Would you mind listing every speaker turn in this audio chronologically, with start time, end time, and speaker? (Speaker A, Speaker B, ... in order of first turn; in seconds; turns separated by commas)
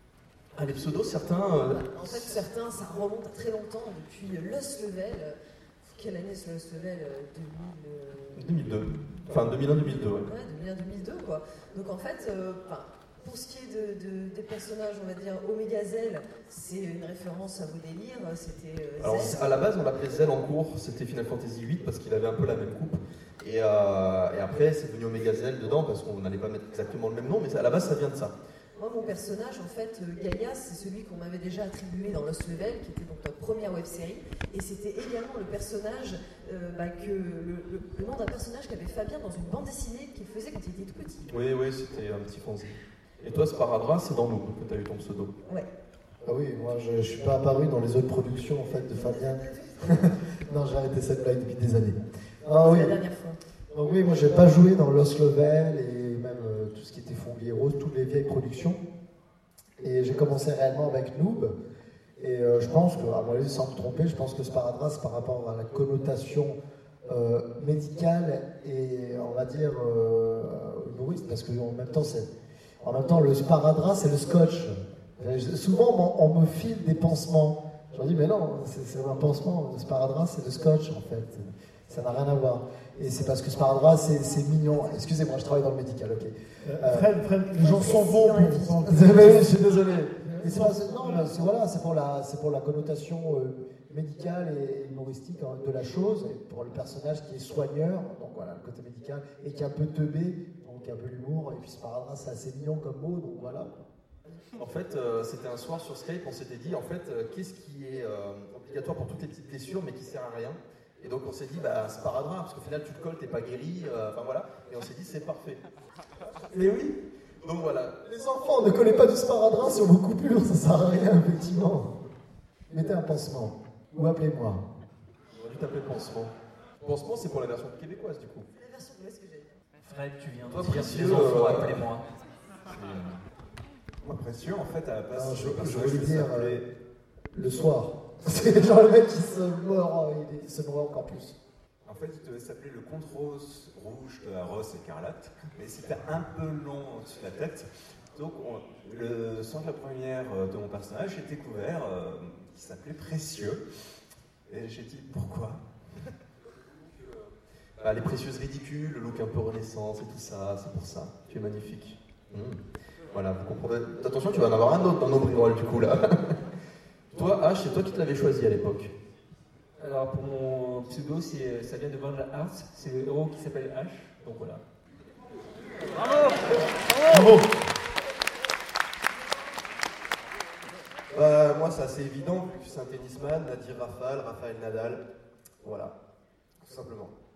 Speaker A: 0.6-2.3, Speaker B: 1.3-8.5, Speaker A: 8.3-10.3, Speaker B: 9.5-19.4, Speaker A: 19.0-28.3, Speaker B: 28.8-41.2, Speaker A: 41.2-45.3, Speaker C: 46.2-53.0, Speaker B: 48.9-50.1, Speaker B: 52.6-53.4, Speaker C: 53.7-58.8, Speaker C: 59.8-61.5, Speaker C: 62.2-72.3, Speaker C: 72.8-87.1, Speaker D: 86.6-91.3, Speaker B: 87.5-89.4, Speaker C: 88.8-89.8, Speaker C: 90.4-103.9, Speaker A: 104.6-115.6, Speaker A: 117.4-118.0, Speaker C: 118.1-121.9, Speaker C: 122.7-124.6, Speaker A: 125.4-128.5, Speaker B: 128.6-129.6, Speaker E: 129.8-132.0, Speaker A: 130.5-131.8, Speaker F: 134.0-136.6, Speaker C: 135.1-136.6, Speaker C: 137.3-141.3, Speaker F: 141.8-153.6, Speaker F: 154.5-155.6, Speaker A: 157.8-162.6, Speaker A: 163.1-166.4, Speaker A: 167.1-168.9, Speaker G: 169.8-174.6, Speaker D: 177.1-177.4, Speaker H: 181.1-185.0, Speaker H: 185.6-185.9, Speaker H: 186.6-187.1